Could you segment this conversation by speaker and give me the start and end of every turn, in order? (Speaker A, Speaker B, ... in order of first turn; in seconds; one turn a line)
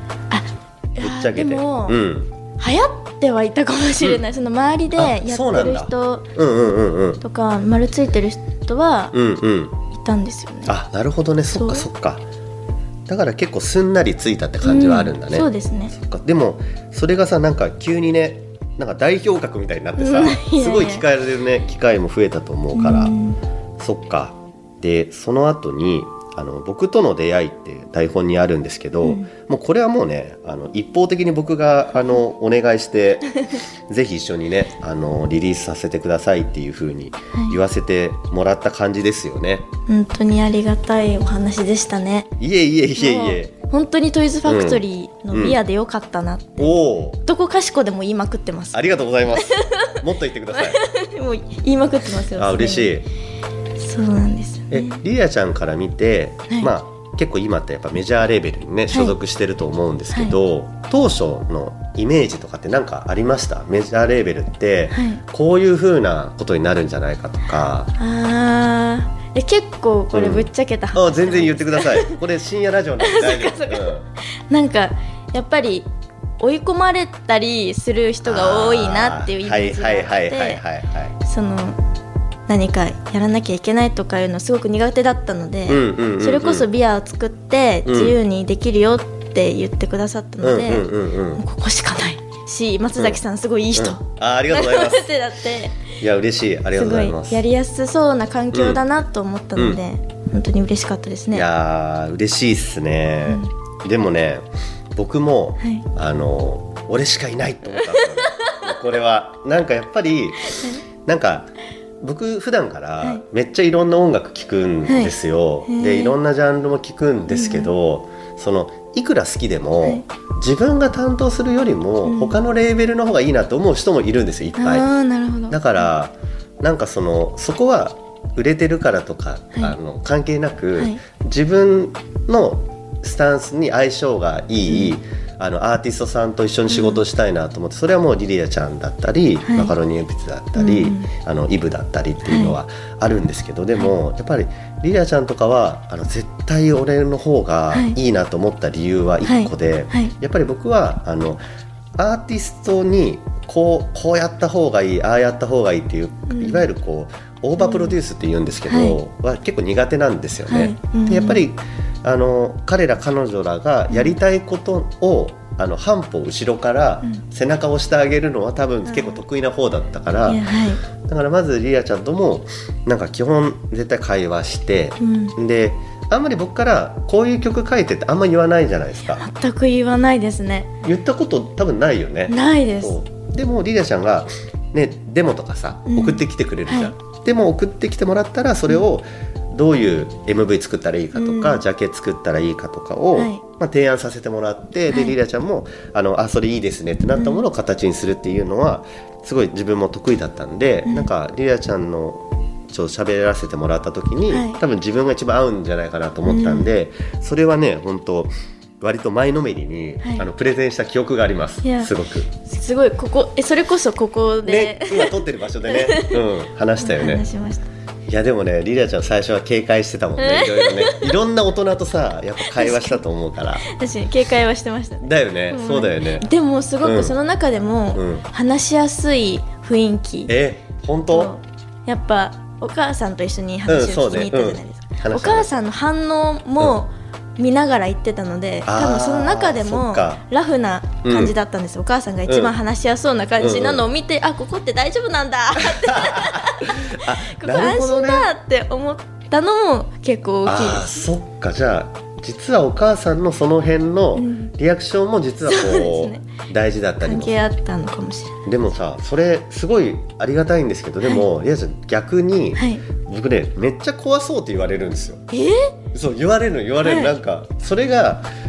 Speaker A: 0.3-2.0
Speaker B: 1.0-2.3
Speaker A: 2.6-6.3
Speaker B: 4.0-4.2
Speaker B: 4.9-7.2
Speaker A: 7.2-9.2
Speaker B: 9.1-9.8
Speaker A: 9.9-10.8
Speaker B: 10.6-12.2
Speaker A: 11.5-11.9
Speaker B: 13.1-23.2
Speaker A: 14.6-15.9
Speaker A: 20.0-21.0
Speaker A: 22.7-23.4
Speaker B: 23.8-33.4
Speaker A: 29.0-29.3
Speaker B: 33.9-39.7
Speaker A: 37.3-37.6
Speaker A: 39.9-42.3
Speaker B: 42.4-43.5
Speaker A: 43.0-50.0
Speaker B: 44.4-45.6
Speaker B: 46.6-47.2
Speaker B: 48.7-50.8
Speaker A: 50.5-53.0
Speaker B: 52.4-53.1
Speaker A: 53.8-55.0
Speaker B: 54.7-67.9
Speaker A: 58.9-59.2
Speaker A: 60.1-60.4
Speaker A: 64.9-65.2
Speaker A: 68.0-72.2
Speaker B: 70.1-74.0
Speaker A: 73.0-74.0
Speaker A: 74.5-75.9
Speaker A: 76.4-80.6
Speaker B: 78.2-81.2
Speaker A: 81.2-81.8
Speaker A: 82.5-95.8
Speaker B: 85.7-86.7
Speaker B: 87.8-88.2
Speaker B: 90.4-91.4
Speaker B: 93.0-93.2
Speaker B: 93.7-95.1
Speaker B: 96.0-97.4
Speaker A: 96.7-101.5
Speaker B: 98.5-98.8
Speaker B: 101.3-124.9
Speaker A: 103.2-103.5
Speaker A: 105.6-105.9
Speaker A: 107.8-108.5
Speaker A: 110.5-110.8
Speaker A: 114.9-115.1
Speaker A: 115.7-116.2
Speaker A: 117.3-117.7
Speaker A: 122.0-122.3
Speaker A: 124.6-125.8
Speaker B: 125.5-151.4
Speaker A: 130.8-131.0
Speaker A: 134.7-134.9
Speaker A: 136.7-137.0
Speaker A: 139.4-139.7
Speaker A: 140.6-141.1
Speaker A: 142.2-142.6
Speaker A: 147.7-148.0
Speaker A: 149.2-150.1
Speaker B: 152.0-170.5
Speaker A: 156.3-156.7
Speaker A: 157.6-158.0
Speaker A: 158.7-159.0
Speaker A: 160.5-161.4
Speaker A: 163.9-164.2
Speaker A: 168.8-169.2
Speaker A: 170.2-170.8
Speaker B: 171.0-179.3
Speaker A: 175.0-175.3
Speaker A: 179.1-180.7
Speaker B: 180.8-212.3
Speaker A: 182.3-183.0
Speaker A: 185.9-186.9
Speaker A: 191.1-191.6
Speaker A: 193.1-193.4
Speaker A: 194.9-195.2
Speaker A: 197.1-197.4
Speaker A: 204.3-204.6
Speaker A: 206.2-206.7
Speaker A: 210.0-210.3
Speaker A: 211.6-216.2
Speaker B: 214.4-217.2
Speaker A: 216.8-217.7
Speaker B: 218.1-223.7
Speaker A: 220.2-221.2
Speaker A: 222.4-223.0
Speaker A: 223.6-230.3
Speaker B: 225.0-226.3
Speaker B: 226.8-227.2
Speaker B: 227.9-228.2
Speaker B: 230.3-231.3
Speaker A: 231.1-251.0
Speaker B: 233.7-235.5
Speaker B: 238.7-240.2
Speaker B: 241.0-241.3
Speaker B: 242.3-242.5
Speaker B: 243.4-243.9
Speaker B: 245.6-248.3
Speaker B: 250.4-257.4
Speaker A: 254.1-254.5
Speaker A: 255.4-256.3
Speaker A: 257.0-258.4
Speaker B: 258.4-265.2
Speaker A: 261.0-261.3
Speaker A: 262.5-262.8
Speaker A: 265.3-265.7
Speaker B: 265.9-268.3
Speaker A: 266.8-267.1